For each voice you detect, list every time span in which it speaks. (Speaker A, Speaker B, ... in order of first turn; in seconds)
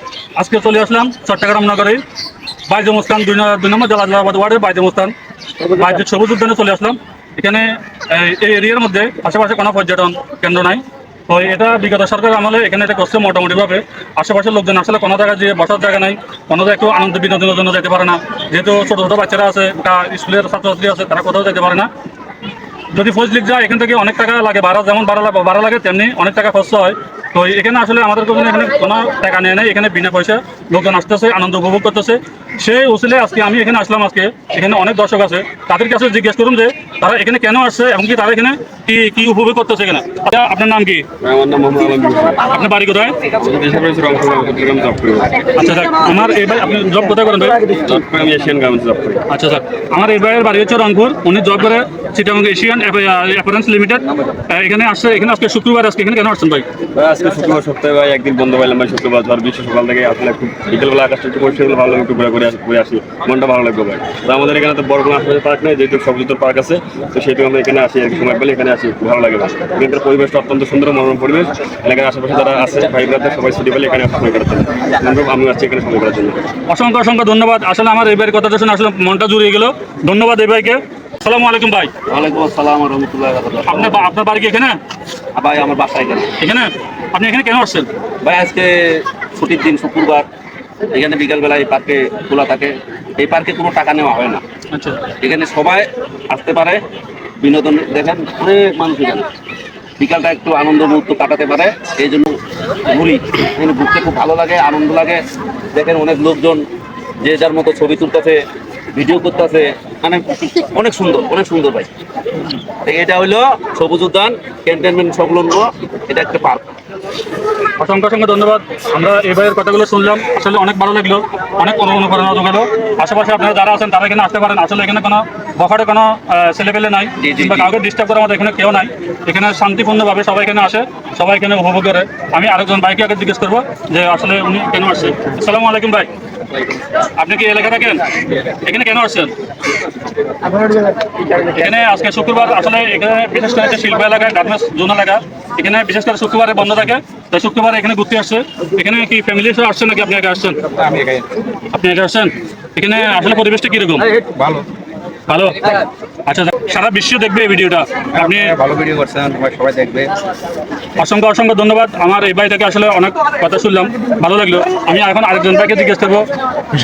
Speaker A: 0.3-2.0, 2.7-21.9, 22.9-41.1, 42.5-43.1, 45.5-47.7, 49.3-56.6, 76.7-81.9, 83.7-84.8, 86.4-87.9, 94.7-95.1, 117.8-136.1, 137.2-139.3, 141.2-150.6, 151.7-154.1, 155.3-158.5, 161.0-166.3
Speaker B: 41.2-42.5, 43.2-45.5, 47.7-49.2, 56.9-76.4
Speaker C: 82.1-84.0, 85.3-86.3, 88.2-90.2, 90.9-94.4, 95.2-96.8, 97.4-99.3, 100.0-106.7, 107.2-108.4, 108.9-111.9, 112.5-116.7, 127.2-127.7
Speaker D: 150.8-151.2, 154.3-154.6, 158.4-160.1